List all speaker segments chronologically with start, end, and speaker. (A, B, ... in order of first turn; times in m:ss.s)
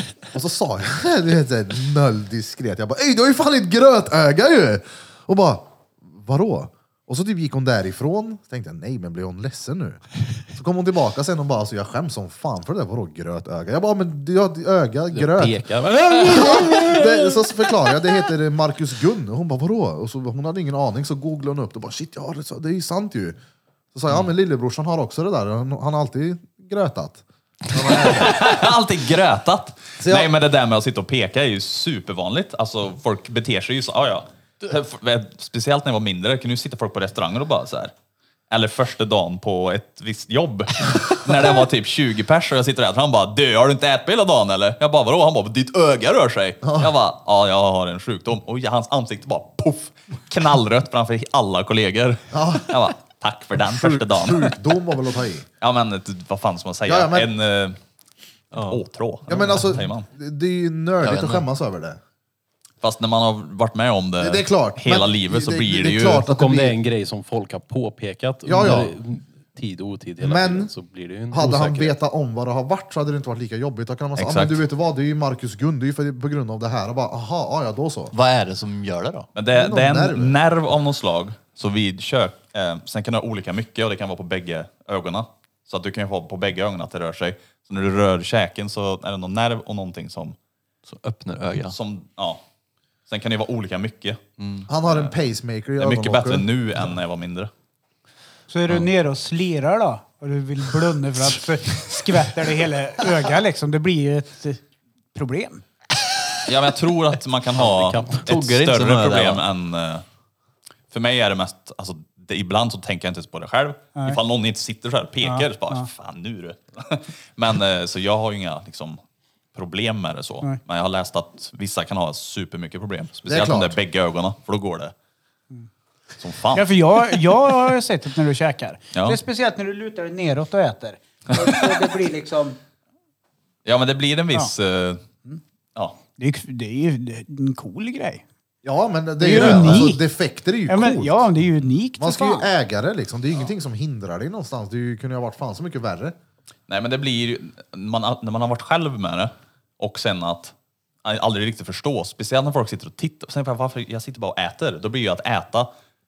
0:00.2-0:23.4 A
0:15.1-0:17.4 B
0:23.9-0:28.5 A
0:27.9-0:37.9 C
0:30.0-0:30.3 A
0:38.5-0:54.6 C
0:46.6-0:46.9 A
0:52.3-0:52.8 A
0:53.6-0:55.4 A
0:55.6-0:57.8 C
0:56.8-0:57.3 A
0:58.5-0:58.8 D
0:58.6-1:00.1 C
0:59.3-1:02.0 A
1:01.0-1:01.4 D
1:02.8-1:06.2 C
1:04.2-1:06.8 A
1:06.2-1:12.0 B
1:08.4-1:08.9 A
1:10.2-1:10.7 A
1:11.3-1:18.1 A
1:14.2-1:14.6 C
1:18.1-1:19.3 D
1:19.3-1:30.4 C
1:19.5-1:20.4 A
1:30.8-1:31.8 D
1:31.7-1:32.4 C
1:33.1-1:35.1 C
1:34.4-1:34.7 D
1:34.7-1:36.5 A
1:35.8-1:37.5 C
1:38.5-1:44.6 E
1:45.1-1:45.6 E
1:46.4-1:50.0 C
1:47.7-1:48.3 B
1:48.2-1:49.4 D
1:50.9-1:59.0 C
1:55.2-1:55.8 E
1:59.5-2:04.9 C
2:03.3-2:03.8 A
2:06.2-2:07.3 C
2:06.5-2:12.6 E
2:11.3-2:11.8 C
2:13.6-2:15.0 C
2:16.2-2:18.2 E
2:18.6-2:21.2 A
2:19.2-2:20.0 E
2:19.3-2:19.9 C
2:20.7-2:22.5 E
2:22.0-2:26.2 A
2:26.7-2:35.7 C